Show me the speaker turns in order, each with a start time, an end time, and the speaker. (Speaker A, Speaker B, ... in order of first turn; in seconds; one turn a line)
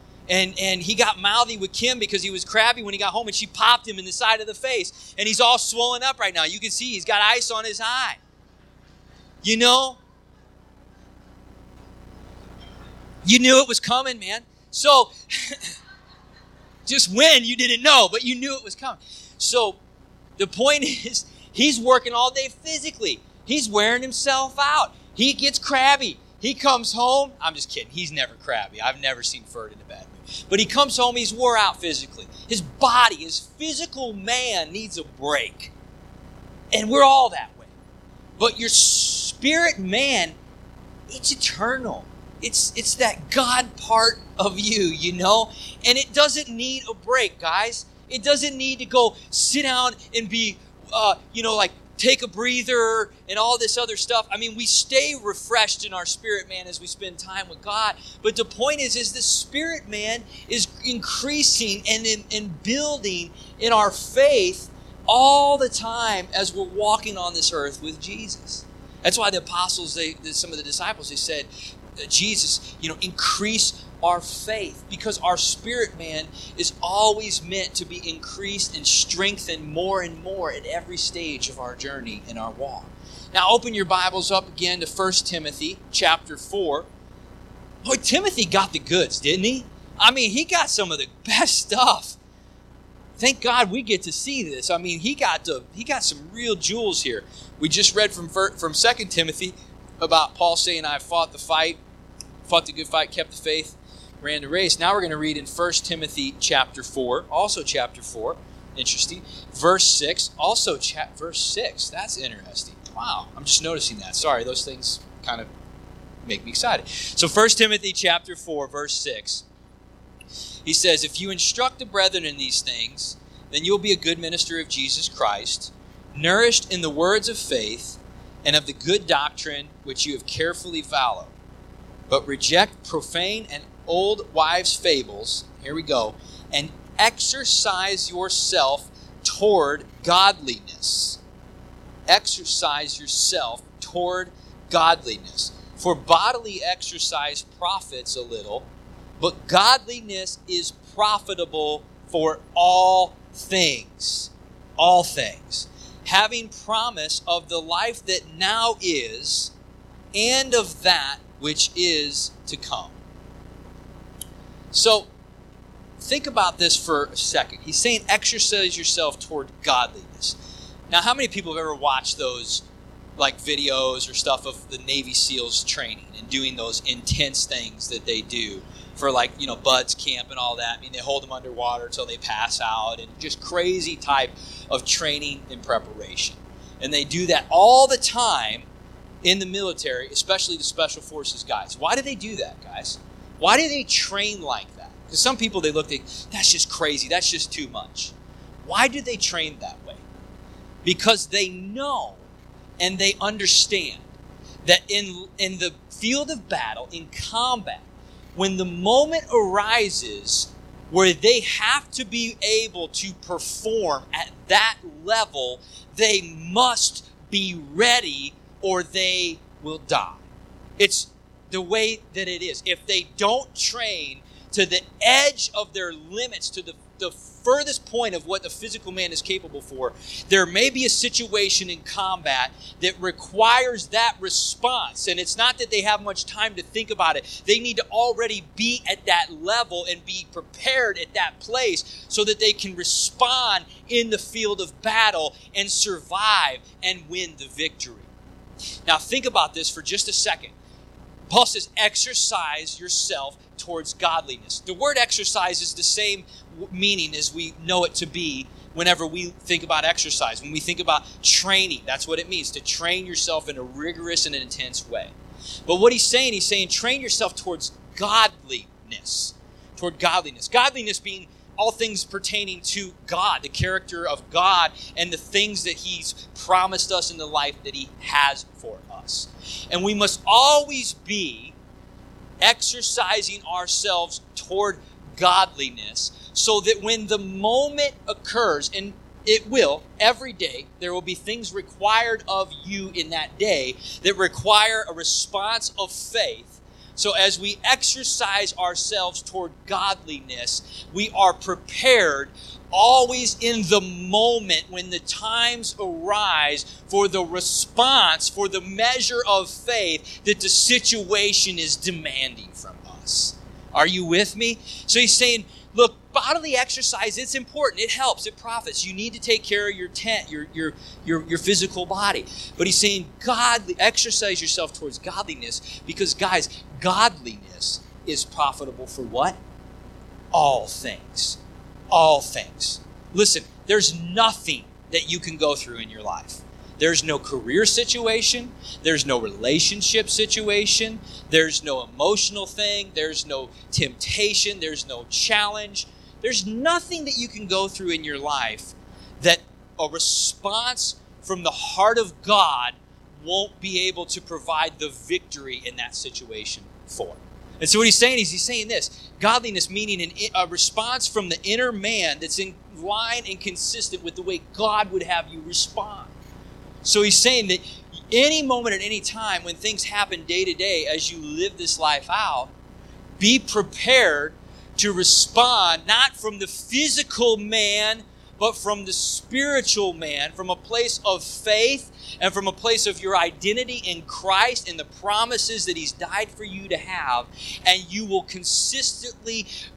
Speaker A: 0.3-8.2
Speaker A: 9.4-10.0
Speaker A: 13.2-15.7
Speaker A: 16.9-19.8
Speaker A: 20.4-35.7
Speaker A: 36.7-37.7
Speaker A: 38.4-40.4
Speaker A: 41.1-86.9
Speaker A: 87.8-92.2
Speaker A: 93.2-101.8
Speaker A: 102.5-115.5
Speaker A: 116.3-119.5
Speaker A: 120.7-131.3
Speaker A: 132.1-141.2
Speaker A: 142.1-148.7
Speaker A: 149.2-159.5
Speaker A: 160.1-162.9
Speaker A: 164.7-165.1
Speaker A: 166.0-170.4
Speaker A: 170.9-172.7
Speaker A: 173.2-188.7
Speaker A: 189.2-198.1
Speaker A: 198.6-200.0
Speaker A: 200.8-202.2
Speaker A: 202.8-204.1
Speaker A: 204.6-220.2
Speaker A: 220.8-248.1
Speaker A: 248.9-250.5
Speaker A: 251.3-265.1
Speaker A: 265.7-281.6
Speaker A: 282.4-329.4
Speaker A: 330.3-331.4
Speaker A: 331.9-366.1
Speaker A: 366.8-372.5
Speaker A: 373.2-389.5